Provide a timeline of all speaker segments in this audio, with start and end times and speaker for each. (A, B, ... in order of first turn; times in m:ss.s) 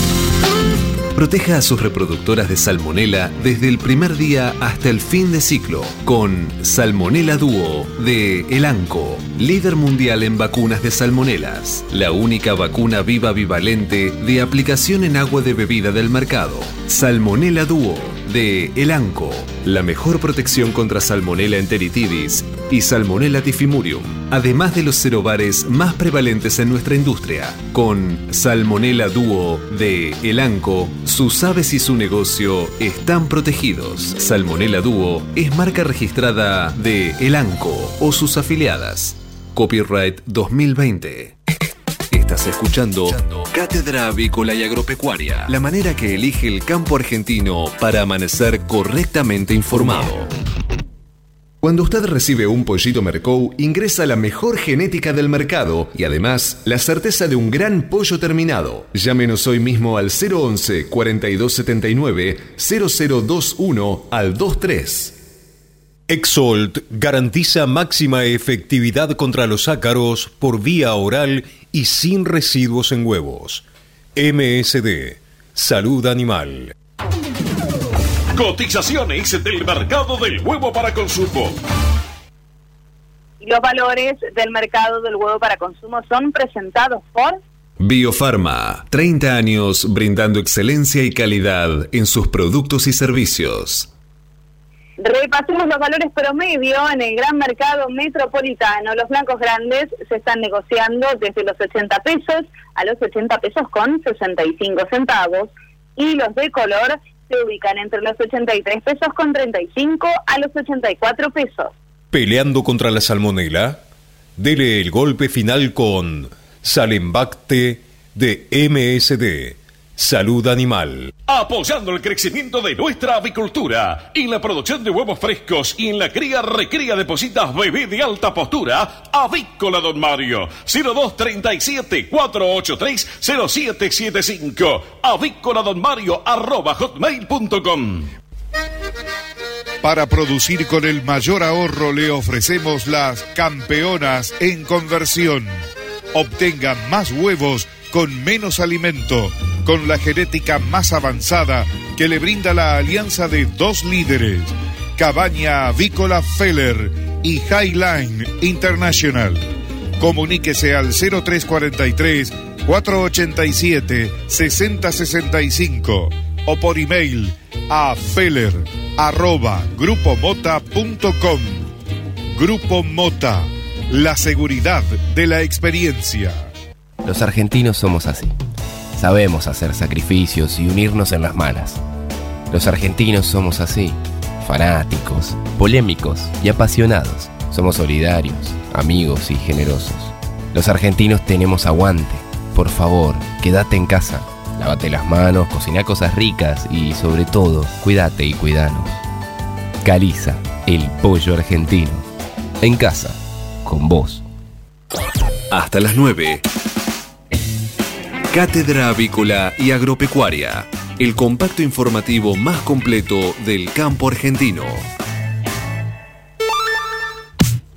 0:01.1-0:41.4 A
0:42.1-0:50.3 A
0:51.6-1:05.2 A
1:06.1-1:13.6 B
1:14.2-1:16.7 B
1:18.3-1:21.6 C
1:23.4-1:27.4 D
1:27.8-1:33.9 A
1:35.0-1:51.7 D
1:52.1-1:53.8 B
1:54.4-2:01.1 B
2:01.3-2:18.1 C
2:19.8-2:25.5 E
2:26.1-2:39.4 E
2:40.0-2:51.7 E
2:52.3-2:56.4 E
2:57.0-2:58.3 F
2:59.0-3:01.8 F
3:02.5-3:19.0 F
3:19.8-3:22.0 F
3:22.6-3:24.2 F
3:25.5-3:26.4 A
3:28.3-3:34.8 A